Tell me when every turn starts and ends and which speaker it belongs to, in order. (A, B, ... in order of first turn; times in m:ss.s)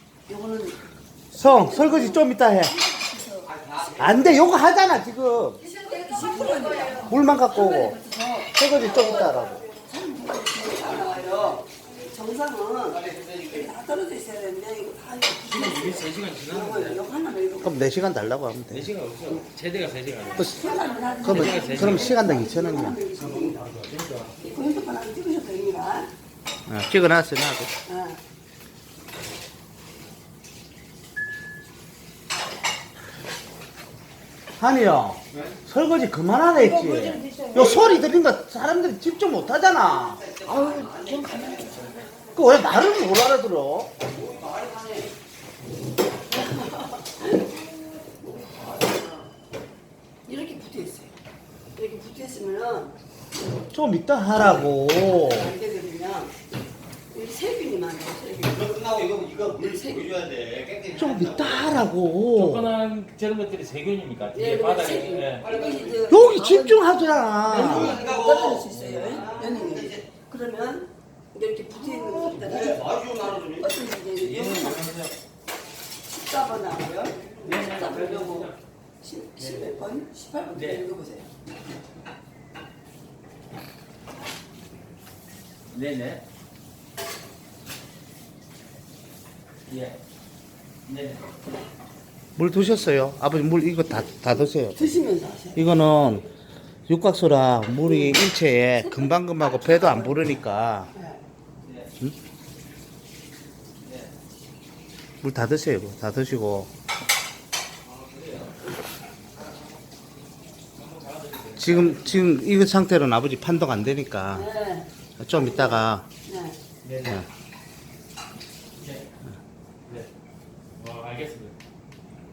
0:00.3-0:00.8 A
0:01.3-0:03.5 A
0:01.3-0:02.7 B
0:03.5-0:04.0 C
0:03.9-0:05.6 B
0:05.8-0:17.9 A
0:07.1-0:08.0 B
0:08.5-0:09.6 B
0:13.1-0:13.4 C
0:15.4-0:17.0 D
0:17.6-0:18.9 B
0:18.7-0:20.6 D
0:20.4-0:20.6 B
0:20.4-0:23.6 A
0:21.2-0:22.1 D
0:21.2-0:23.0 B
0:23.2-0:24.3 D
0:24.4-0:26.1 A
0:26.7-0:27.7 B
0:27.9-0:28.2 A
0:34.6-0:40.2 B
0:36.6-0:38.0 A
0:40.2-0:41.8 C
0:40.4-0:41.9 A
0:42.3-0:43.9 B
0:44.0-0:45.1 C
0:46.3-0:47.5 A
0:50.2-0:51.1 A
0:51.7-0:53.0 A
0:53.7-0:55.5 B
0:54.4-0:56.4 A
0:57.1-0:58.9 A
0:58.6-1:01.6 C
0:59.6-1:00.1 A
1:00.9-1:02.7 B
1:02.3-1:05.6 D
1:04.3-1:06.9 A
1:05.5-1:06.1 C
1:06.1-1:08.0 B
1:07.4-1:14.9 A
1:07.8-1:08.6 C
1:08.6-1:09.2 D
1:09.2-1:10.0 C
1:12.3-1:13.6 C
1:14.2-1:15.1 D
1:16.1-1:21.3 A
1:17.4-1:18.6 D
1:19.4-1:19.6 D
1:20.5-1:20.8 D
1:25.7-1:26.2 D
1:29.7-1:30.0 D
1:30.9-1:31.2 D
1:32.4-1:34.9 B
1:34.7-1:35.6 A
1:35.6-1:36.2 B
1:36.9-1:40.9 B
1:37.8-1:38.2 A
1:38.8-1:40.2 A
1:40.9-1:41.2 A
1:41.6-1:41.9 D
1:43.8-1:44.1 D
1:45.2-1:46.7 B
1:47.8-1:48.5 D
1:50.7-1:52.3 D
1:51.6-1:54.5 B
1:54.3-1:56.6 A
1:55.2-1:56.0 B
1:56.8-1:57.2 D
1:58.8-1:59.1 D
2:00.8-2:01.5 D